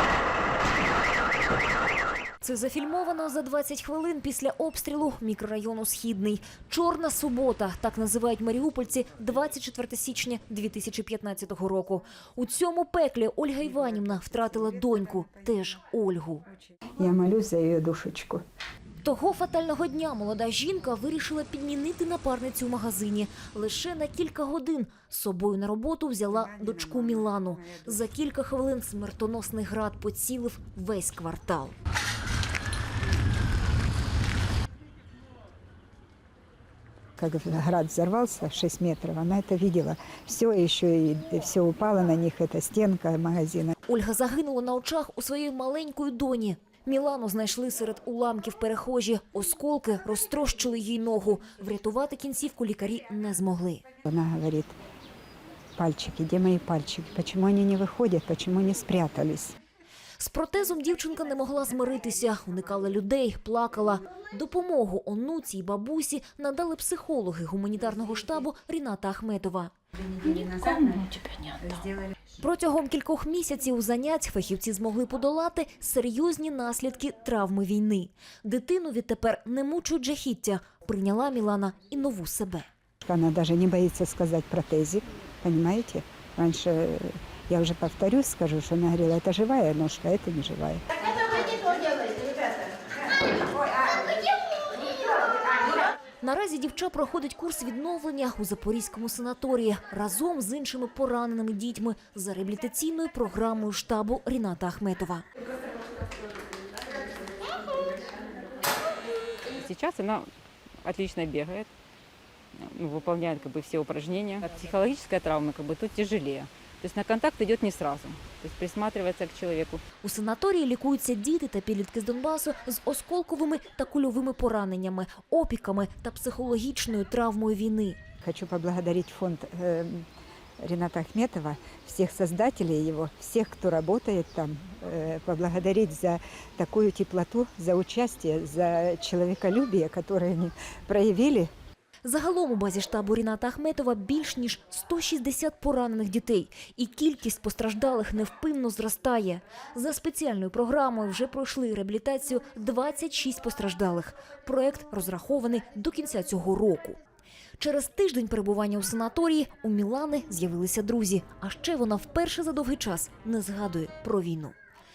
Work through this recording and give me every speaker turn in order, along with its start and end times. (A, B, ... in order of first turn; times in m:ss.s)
0:02.4-0:16.4 A
0:13.9-0:15.4 B
0:16.5-0:18.4 B
0:19.0-0:31.7 A
0:26.3-0:28.0 B
0:37.2-0:43.8 B
0:43.9-0:53.8 A
0:54.0-0:54.8 B
0:55.8-0:59.5 B
1:00.2-1:09.7 A
1:09.9-1:12.1 B
1:10.2-1:11.6 C
1:12.4-1:22.7 A
1:23.0-1:34.1 B
1:36.2-1:45.2 A
1:49.5-1:50.3 C
1:50.8-1:51.7 C
1:52.5-1:59.8 C
2:00.0-2:08.0 A
2:08.2-2:10.0 B
2:10.6-2:21.5 B
2:22.0-2:37.0 A
2:37.6-2:44.5 A